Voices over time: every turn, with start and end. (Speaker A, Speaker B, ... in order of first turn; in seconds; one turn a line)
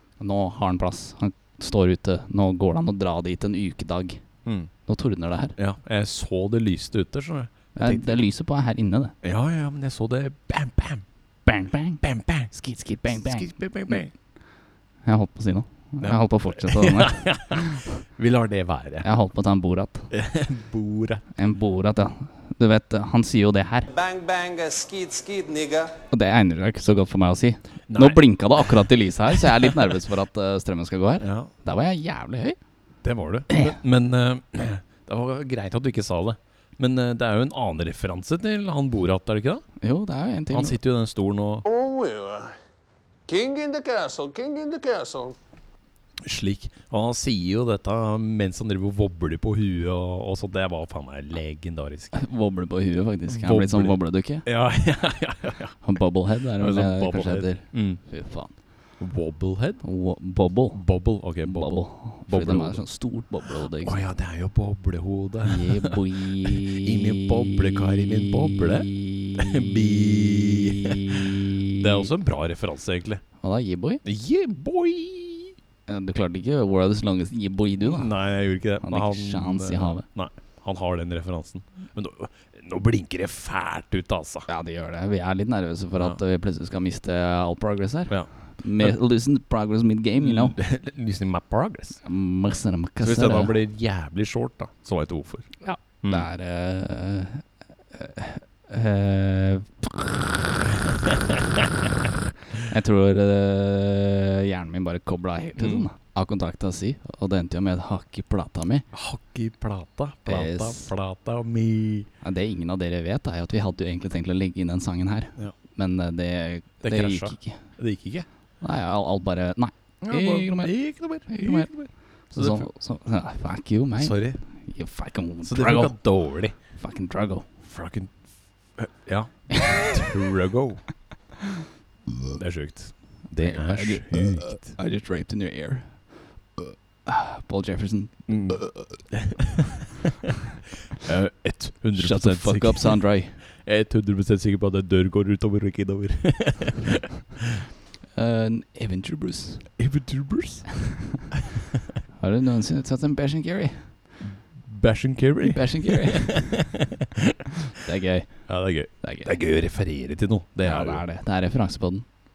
Speaker A: 0.2-4.2
Speaker B: 4.5-4.7
Speaker A: 4.9-5.6
Speaker B: 5.6-8.2
Speaker A: 7.8-9.1
Speaker B: 9.2-11.0
Speaker A: 11.5-14.0
Speaker B: 12.0-12.5
Speaker B: 13.1-14.1
Speaker A: 15.1-17.8
Speaker B: 16.0-19.1
Speaker A: 19.0-20.1
Speaker B: 20.1-21.2
Speaker A: 21.4-24.0
Speaker C: 24.1-25.9
Speaker A: 26.1-32.6
Speaker B: 27.9-29.8
Speaker B: 31.2-31.5
Speaker B: 33.0-39.6
Speaker A: 39.8-40.8
Speaker B: 40.5-41.7
Speaker C: 41.8-42.5
Speaker C: 43.3-45.4
Speaker B: 46.2-52.1
Speaker A: 52.1-54.5
Speaker B: 53.3-55.8
Speaker A: 55.8-58.6
Speaker B: 56.6-58.0
Speaker B: 59.0-59.8
Speaker A: 59.8-60.9
Speaker B: 60.7-62.8
Speaker A: 61.4-64.0
Speaker B: 63.5-73.2
Speaker A: 65.5-72.1
Speaker A: 73.4-74.0
Speaker B: 74.0-75.6
Speaker A: 75.9-78.1
Speaker B: 77.8-84.5
Speaker A: 78.8-80.0
Speaker A: 84.5-90.6
Speaker B: 88.1-89.0
Speaker B: 90.2-92.0
Speaker A: 92.0-93.5
Speaker B: 93.0-96.3
Speaker A: 95.6-100.4
Speaker A: 102.6-108.9
Speaker B: 105.6-105.9
Speaker B: 108.9-112.1
Speaker A: 110.3-110.9
Speaker A: 112.2-117.6
Speaker B: 116.8-118.3
Speaker A: 118.6-121.7
Speaker B: 120.0-122.7
Speaker A: 122.3-126.0
Speaker B: 124.0-124.4
Speaker B: 125.5-126.5
Speaker A: 126.7-127.5
Speaker B: 127.6-128.2
Speaker B: 128.8-130.8
Speaker A: 129.5-130.1
Speaker B: 132.3-134.8
Speaker A: 133.4-136.1
Speaker A: 136.6-139.0
Speaker B: 138.3-139.8
Speaker B: 141.0-147.1
Speaker A: 142.0-143.4
Speaker A: 148.1-149.7
Speaker B: 149.8-150.7
Speaker A: 152.2-153.9
Speaker B: 154.2-156.9
Speaker A: 155.4-156.7
Speaker A: 157.7-159.3
Speaker B: 158.5-161.0
Speaker A: 160.6-162.1